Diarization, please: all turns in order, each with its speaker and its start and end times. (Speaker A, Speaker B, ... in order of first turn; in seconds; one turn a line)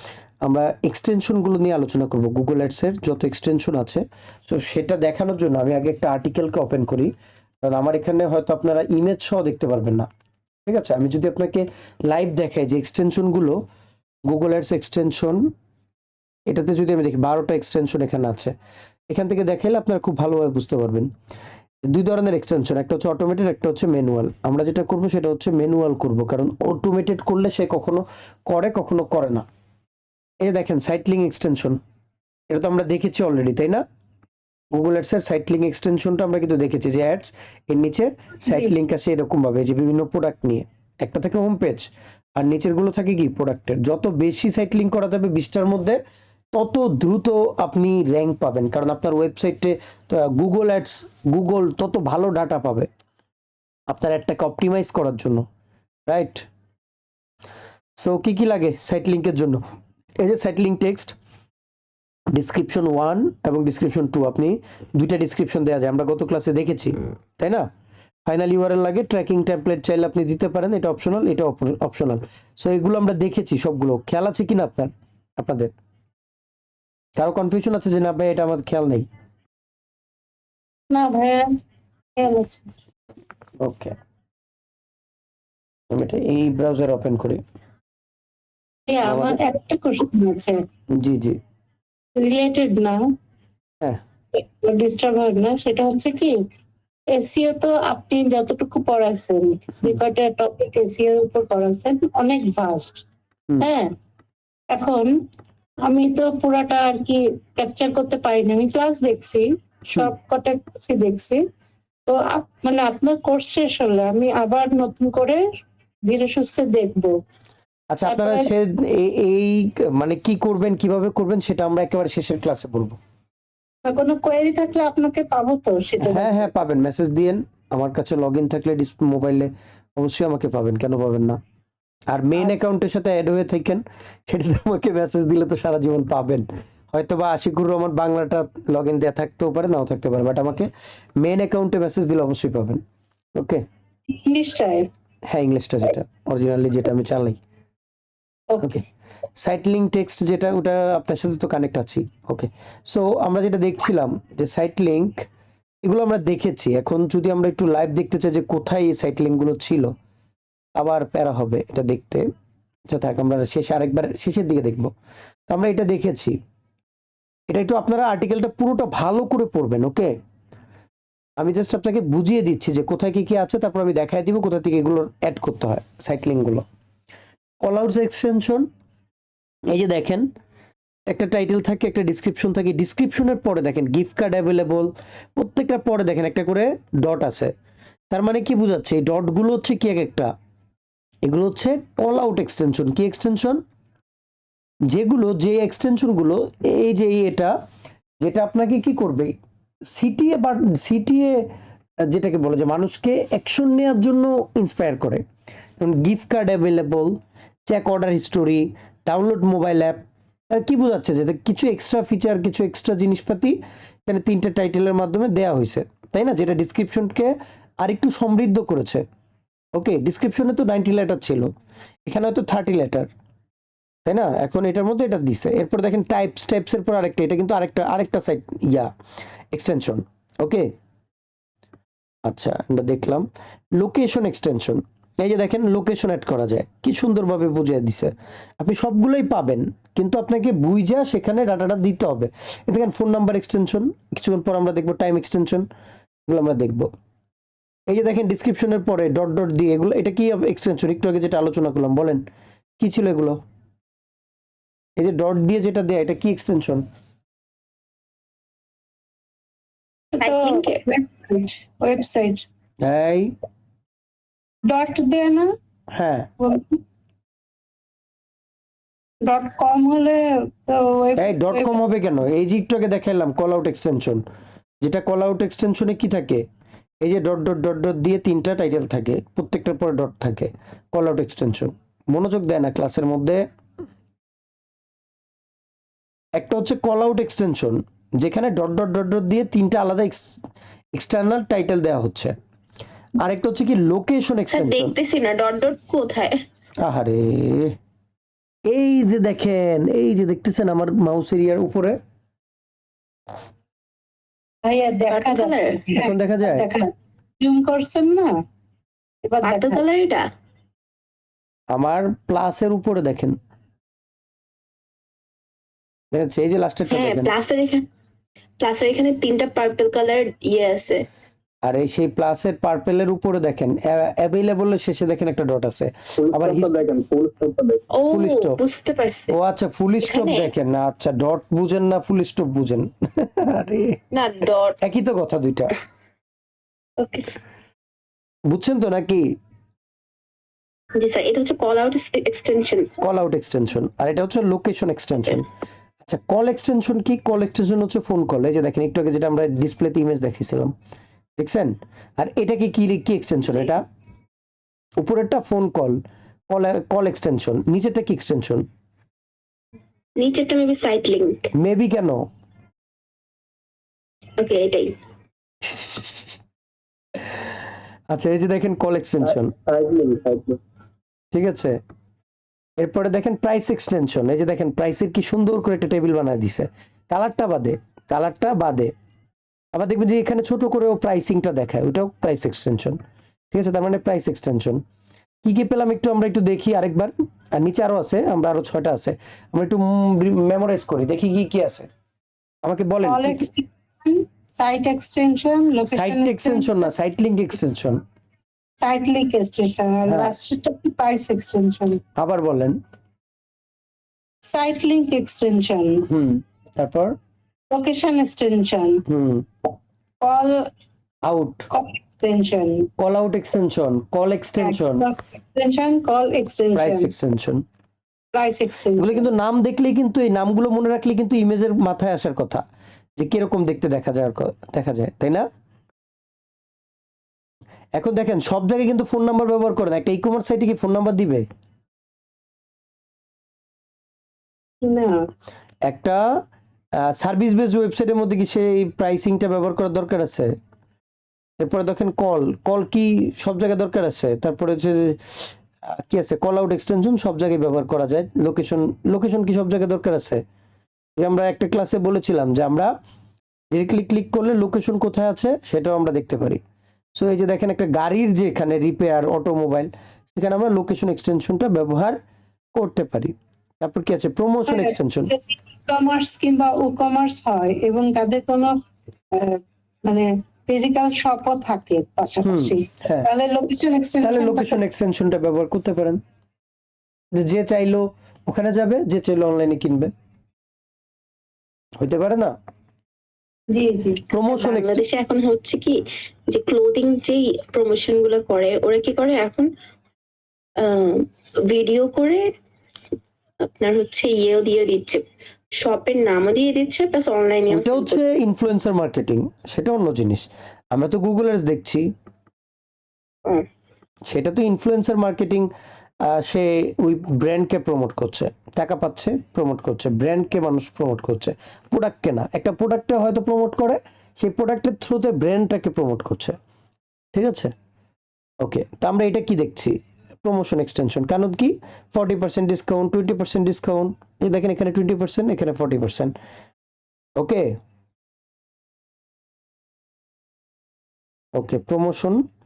Speaker A: 0.4-7.1
Speaker A: 7.6-10.1
Speaker A: 10.7-13.6
Speaker A: 14.3-15.5
Speaker A: 16.5-18.5
Speaker A: 19.1-21.1
Speaker A: 21.9-29.4
Speaker A: 30.4-31.8
Speaker A: 32.5-33.8
Speaker A: 34.7-46.0
Speaker A: 46.5-52.9
Speaker A: 53.9-55.5
Speaker A: 56.1-56.5
Speaker A: 58.0-59.6
Speaker A: 60.2-61.1
Speaker A: 62.3-67.7
Speaker A: 68.3-75.7
Speaker A: 77.2-79.0
Speaker B: 80.9-81.5
Speaker B: 82.2-82.7
Speaker A: 83.6-83.9
Speaker A: 85.9-87.4
Speaker B: 88.9-90.6
Speaker A: 89.0-89.4
Speaker A: 91.0-91.4
Speaker B: 92.2-93.0
Speaker B: 94.6-96.3
Speaker B: 97.1-103.0
Speaker B: 103.6-103.9
Speaker B: 104.7-105.1
Speaker B: 105.8-111.4
Speaker B: 112.1-115.4
Speaker B: 116.1-117.1
Speaker A: 117.9-123.0
Speaker B: 118.0-118.5
Speaker B: 123.8-126.5
Speaker A: 126.0-131.4
Speaker A: 132.1-142.8
Speaker A: 143.3-143.6
Speaker B: 144.1-144.9
Speaker A: 145.3-147.4
Speaker B: 148.5-148.8
Speaker A: 148.6-148.8
Speaker A: 149.4-155.2
Speaker A: 155.8-159.9
Speaker A: 160.8-162.3
Speaker A: 162.9-164.9
Speaker A: 165.5-166.3
Speaker A: 167.5-170.1
Speaker A: 171.4-176.6
Speaker A: 177.6-178.7
Speaker A: 179.7-180.3
Speaker A: 181.1-187.5
Speaker A: 188.1-190.3
Speaker A: 191.2-193.6
Speaker A: 194.9-197.5
Speaker A: 198.2-199.3
Speaker A: 199.9-201.4
Speaker A: 202.1-205.2
Speaker A: 205.8-219.0
Speaker A: 219.8-221.5
Speaker A: 222.1-223.1
Speaker A: 224.1-228.9
Speaker A: 229.5-230.7
Speaker A: 232.3-245.7
Speaker A: 246.3-246.9
Speaker A: 247.9-252.2
Speaker A: 252.8-253.4
Speaker A: 255.0-256.8
Speaker B: 260.1-262.4
Speaker C: 260.2-260.8
Speaker A: 262.8-263.3
Speaker B: 264.7-265.5
Speaker A: 265.9-266.3
Speaker B: 266.4-266.8
Speaker B: 269.2-271.8
Speaker A: 271.2-274.2
Speaker A: 274.8-276.4
Speaker A: 277.0-283.4
Speaker A: 286.4-290.3
Speaker A: 290.9-292.3
Speaker A: 293.2-294.9
Speaker C: 294.5-296.4
Speaker A: 296.8-297.8
Speaker A: 298.7-302.0
Speaker B: 304.6-306.9
Speaker C: 305.1-306.0
Speaker A: 306.0-306.6
Speaker B: 307.4-308.3
Speaker B: 309.2-309.8
Speaker C: 309.4-310.2
Speaker A: 311.7-313.4
Speaker A: 316.1-317.3
Speaker C: 316.9-317.8
Speaker C: 318.6-321.1
Speaker A: 321.6-326.9
Speaker D: 326.2-327.8
Speaker C: 327.9-329.3
Speaker A: 328.1-328.6
Speaker A: 329.3-334.0
Speaker C: 330.0-330.5
Speaker C: 334.1-334.8
Speaker A: 334.8-335.8
Speaker C: 337.0-337.4
Speaker A: 338.5-339.3
Speaker C: 340.9-343.0
Speaker A: 343.0-345.5
Speaker A: 346.0-350.7
Speaker A: 351.4-353.8
Speaker A: 355.0-356.0
Speaker A: 356.5-358.6
Speaker C: 360.2-361.5
Speaker A: 361.5-362.2
Speaker C: 364.4-364.9
Speaker A: 365.6-366.2
Speaker A: 368.1-369.5
Speaker D: 369.6-370.6
Speaker A: 371.3-371.8
Speaker A: 372.8-378.9
Speaker A: 379.7-383.0
Speaker A: 383.5-384.8
Speaker A: 385.4-391.9
Speaker A: 392.6-393.5
Speaker B: 393.0-396.9
Speaker A: 395.9-398.0
Speaker B: 398.8-402.0
Speaker A: 400.1-400.3
Speaker A: 402.2-402.8
Speaker B: 404.5-406.0
Speaker A: 406.1-407.1
Speaker B: 407.7-409.0
Speaker A: 409.1-409.4
Speaker B: 410.2-410.6
Speaker A: 411.2-411.6
Speaker B: 411.7-412.9
Speaker A: 413.0-415.1
Speaker B: 414.6-417.1
Speaker A: 416.7-417.6
Speaker B: 418.3-419.3
Speaker A: 419.0-422.6
Speaker A: 423.2-425.5
Speaker A: 427.9-431.4
Speaker B: 434.8-435.2
Speaker A: 435.9-436.2
Speaker A: 437.0-440.5
Speaker A: 441.6-450.4
Speaker A: 451.2-452.9
Speaker A: 453.7-456.6
Speaker A: 457.2-462.2
Speaker A: 462.7-465.3
Speaker B: 464.7-468.7
Speaker B: 469.3-474.8
Speaker A: 472.4-473.3
Speaker A: 474.2-476.2
Speaker A: 477.4-480.1
Speaker A: 482.0-482.5
Speaker B: 483.7-484.4
Speaker A: 484.3-485.0
Speaker C: 484.4-489.7
Speaker C: 490.8-492.4
Speaker C: 493.6-495.2
Speaker C: 495.8-498.4
Speaker A: 497.7-502.0
Speaker A: 504.3-505.7
Speaker A: 506.3-516.5
Speaker A: 517.3-517.7
Speaker A: 518.6-526.3
Speaker A: 527.4-527.7
Speaker A: 531.5-532.4